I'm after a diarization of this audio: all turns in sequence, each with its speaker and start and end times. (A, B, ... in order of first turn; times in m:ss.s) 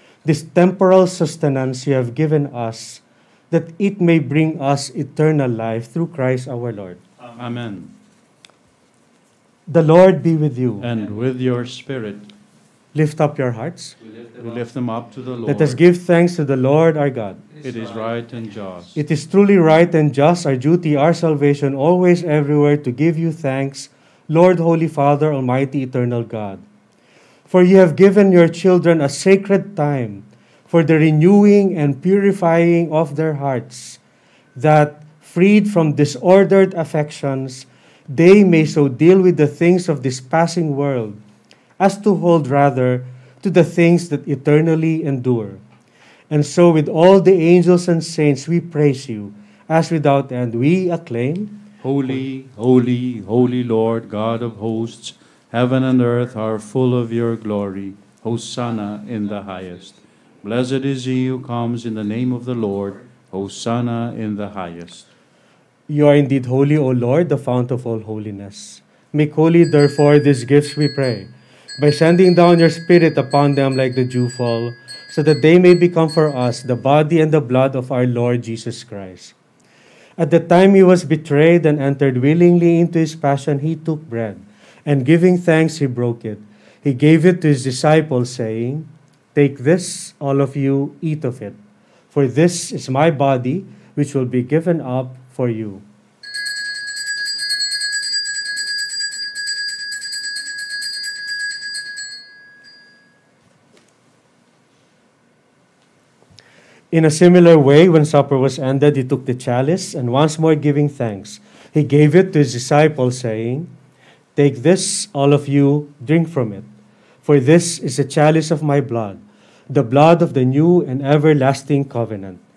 0:00.2-0:07.0 A
0:07.4-0:07.9 B
0:09.7-0:10.9 A
0:10.8-0:12.3 B
0:12.9-0:14.0 A
0:14.4-0:15.8 B
0:15.5-0:17.4 A
0:17.6-0:19.0 B
0:18.9-0:26.6 A
0:27.5-0:34.0 A
0:34.6-0:41.2 A
0:41.8-0:45.6 A
0:46.3-0:51.6 A
0:51.8-1:05.0 B
1:05.9-1:19.3 A
1:20.2-1:31.6 A
1:32.1-1:35.8 A
1:46.9-1:53.7 A
1:54.4-1:56.7 A
1:57.2-2:02.4 A